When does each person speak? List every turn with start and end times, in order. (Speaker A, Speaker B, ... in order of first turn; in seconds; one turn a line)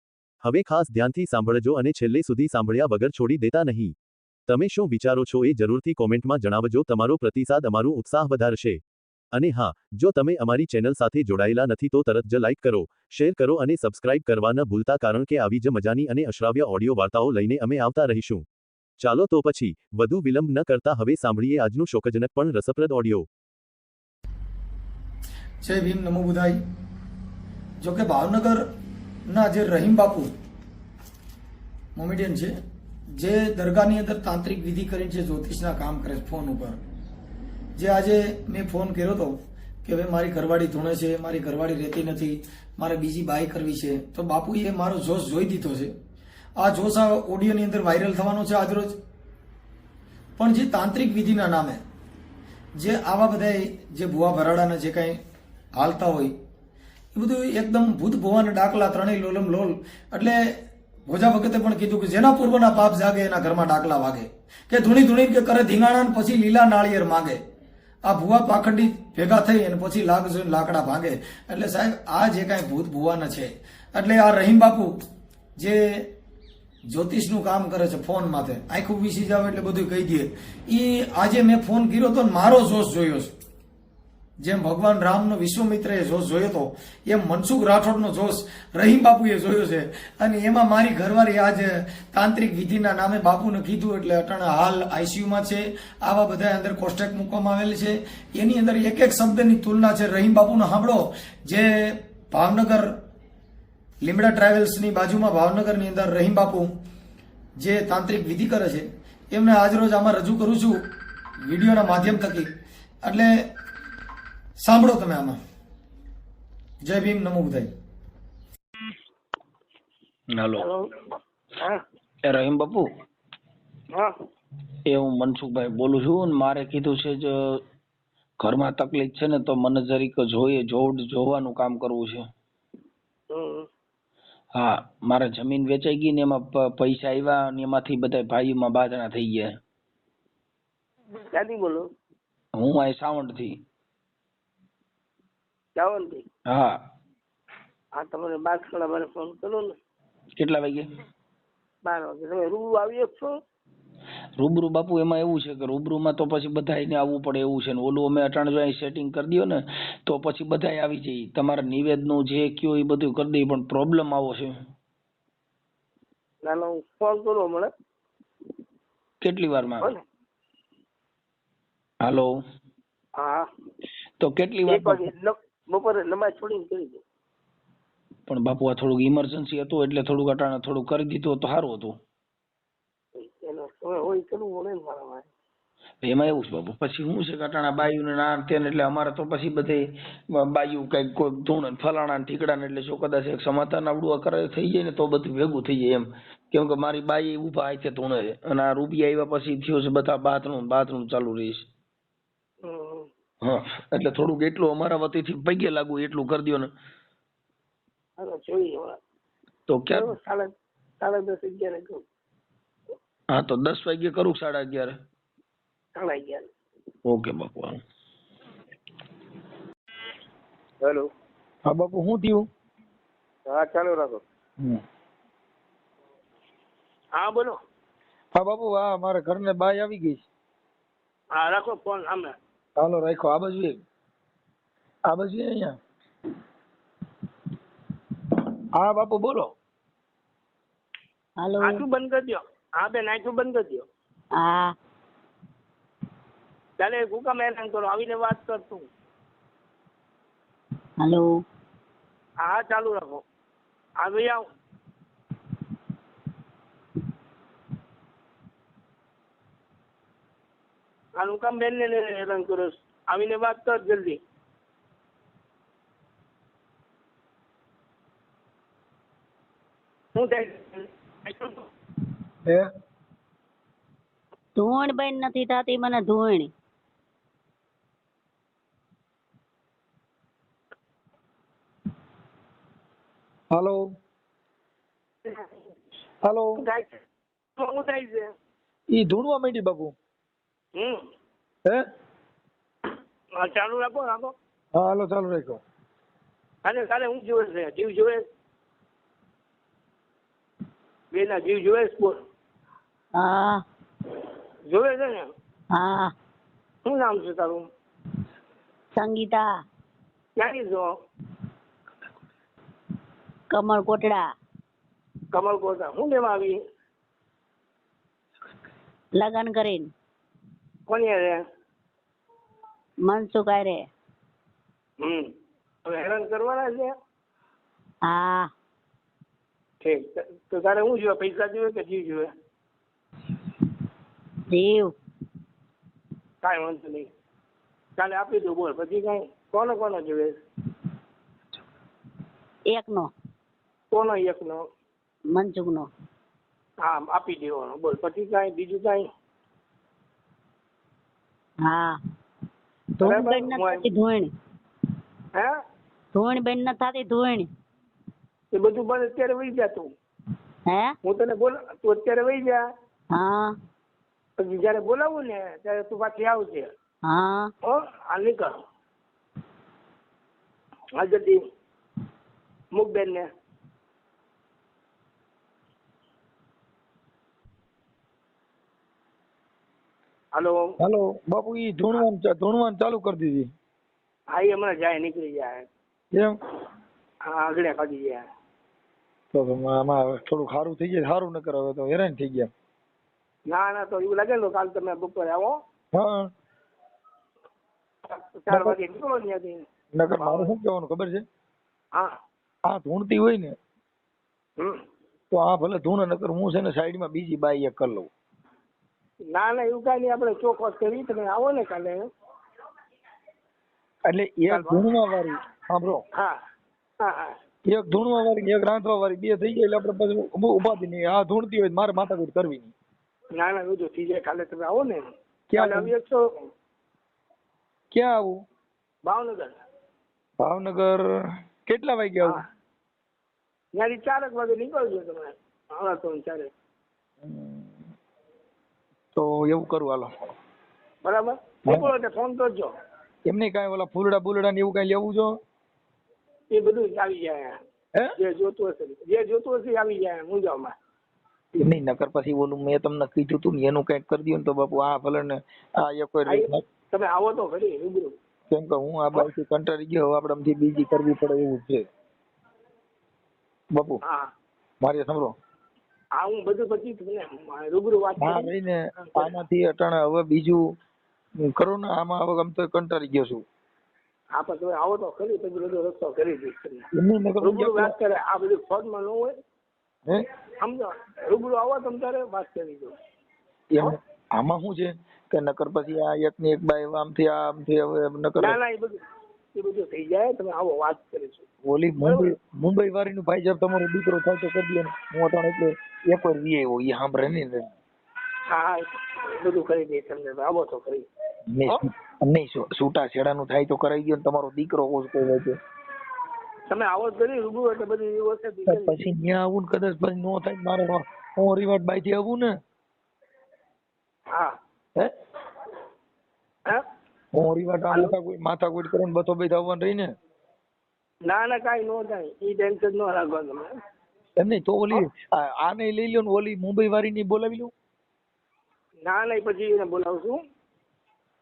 Speaker A: 0.4-3.9
Speaker A: 4.5-8.8
Speaker A: 9.3-18.4
Speaker A: 19.0-23.3
Speaker B: 25.6-26.6
Speaker B: 27.8-28.6
Speaker B: 29.3-30.3
Speaker B: 31.9-32.5
Speaker B: 33.2-36.8
Speaker B: 37.8-45.9
Speaker B: 46.6-48.9
Speaker B: 50.4-51.8
Speaker B: 52.8-55.2
Speaker B: 55.8-56.3
Speaker B: 57.1-60.5
Speaker B: 61.1-67.4
Speaker B: 68.0-74.9
Speaker B: 75.6-76.1
Speaker B: 76.9-83.3
Speaker B: 84.4-102.9
Speaker B: 104.0-106.7
Speaker B: 107.6-110.8
Speaker B: 111.5-112.5
Speaker B: 113.0-113.4
Speaker B: 114.6-115.4
Speaker B: 116.8-117.7
Speaker C: 120.3-120.6
Speaker D: 120.6-120.9
Speaker C: 122.2-122.9
Speaker C: 124.9-127.6
Speaker C: 128.4-132.2
Speaker D: 133.3-133.7
Speaker C: 134.5-139.5
Speaker D: 141.3-141.9
Speaker C: 142.6-143.6
Speaker D: 145.7-146.2
Speaker C: 146.5-146.8
Speaker D: 147.9-149.8
Speaker C: 150.4-150.9
Speaker D: 151.8-153.4
Speaker C: 154.4-164.6
Speaker D: 166.4-167.7
Speaker C: 169.2-169.9
Speaker C: 172.0-172.3
Speaker D: 173.2-173.5
Speaker C: 174.2-175.1
Speaker D: 174.7-177.0
Speaker C: 178.3-182.0
Speaker D: 183.2-185.3
Speaker C: 186.0-201.7
Speaker D: 202.6-203.1
Speaker C: 203.4-206.7
Speaker D: 208.2-209.0
Speaker C: 209.7-210.2
Speaker D: 209.9-212.0
Speaker C: 213.3-215.0
Speaker D: 215.9-216.5
Speaker C: 217.1-217.8
Speaker D: 220.8-221.1
Speaker C: 221.7-222.5
Speaker D: 223.5-224.2
Speaker D: 227.1-227.6
Speaker C: 228.3-230.2
Speaker D: 231.3-232.3
Speaker C: 232.8-233.8
Speaker C: 235.1-235.8
Speaker C: 238.8-239.5
Speaker E: 241.4-241.8
Speaker D: 241.6-243.9
Speaker E: 244.3-244.7
Speaker D: 246.8-248.8
Speaker E: 251.0-251.4
Speaker D: 252.4-253.2
Speaker D: 254.0-254.5
Speaker D: 261.2-264.2
Speaker D: 270.1-271.6
Speaker E: 274.6-276.5
Speaker C: 283.5-283.9
Speaker D: 285.2-285.5
Speaker C: 286.2-286.6
Speaker D: 286.6-287.0
Speaker D: 287.6-288.3
Speaker C: 288.9-289.9
Speaker D: 290.8-291.0
Speaker D: 293.4-294.3
Speaker C: 294.7-295.6
Speaker D: 296.6-298.2
Speaker D: 301.1-302.2
Speaker E: 303.1-303.6
Speaker D: 304.6-305.3
Speaker E: 305.7-306.1
Speaker D: 306.8-307.6
Speaker E: 308.9-309.6
Speaker D: 310.4-310.9
Speaker E: 313.5-314.3
Speaker D: 315.3-316.6
Speaker E: 319.1-319.9
Speaker D: 320.9-321.4
Speaker E: 323.0-323.9
Speaker D: 325.0-325.3
Speaker D: 325.8-326.9
Speaker E: 328.0-328.5
Speaker D: 329.8-332.3
Speaker E: 334.5-334.9
Speaker D: 336.4-337.1
Speaker D: 337.9-340.3
Speaker E: 342.7-343.1
Speaker D: 343.9-344.6
Speaker E: 345.3-345.9
Speaker D: 346.8-349.1
Speaker E: 351.6-352.0
Speaker E: 353.0-354.3
Speaker D: 353.0-353.8
Speaker E: 356.1-357.5
Speaker D: 358.5-359.9
Speaker E: 360.7-360.9
Speaker D: 361.0-362.6
Speaker E: 363.1-363.6
Speaker D: 364.4-366.7
Speaker E: 367.0-367.5
Speaker D: 367.6-368.6
Speaker D: 370.9-371.4
Speaker D: 372.7-373.3
Speaker D: 380.3-380.7
Speaker C: 380.8-383.5
Speaker D: 384.3-385.6
Speaker D: 387.3-388.2
Speaker C: 389.3-392.5
Speaker D: 393.5-395.6
Speaker C: 395.9-396.3
Speaker D: 398.1-399.6
Speaker C: 398.5-398.8
Speaker C: 399.9-401.2
Speaker D: 400.2-400.5
Speaker C: 402.7-403.6
Speaker C: 405.3-408.1
Speaker D: 409.3-412.0
Speaker C: 414.1-416.0
Speaker D: 414.5-414.8
Speaker D: 417.0-417.3
Speaker C: 417.6-422.7
Speaker D: 423.3-425.0
Speaker C: 425.5-425.9
Speaker D: 425.6-426.2
Speaker C: 427.9-428.4
Speaker D: 429.1-429.6
Speaker C: 430.4-431.1
Speaker C: 431.6-432.4
Speaker D: 433.8-436.5
Speaker C: 437.2-437.8
Speaker C: 439.1-440.1
Speaker D: 441.0-442.7
Speaker C: 441.6-441.9
Speaker C: 443.2-445.4
Speaker D: 446.5-447.5
Speaker D: 448.2-450.7
Speaker C: 451.6-456.6
Speaker D: 456.3-458.1
Speaker C: 458.5-461.8
Speaker C: 463.7-464.0
Speaker C: 464.8-465.4
Speaker D: 466.2-468.5
Speaker C: 468.2-470.6
Speaker C: 471.4-473.4
Speaker D: 474.3-476.9
Speaker C: 476.9-477.9
Speaker D: 477.4-479.3
Speaker D: 480.6-482.9
Speaker C: 483.7-488.6
Speaker D: 488.4-489.0
Speaker D: 489.5-491.4
Speaker C: 491.6-497.7
Speaker D: 492.0-492.3
Speaker D: 498.5-501.1
Speaker C: 501.5-505.6
Speaker D: 506.7-509.1
Speaker C: 508.7-512.5
Speaker C: 517.3-520.1
Speaker D: 521.2-523.7
Speaker C: 524.4-527.7
Speaker D: 529.0-530.4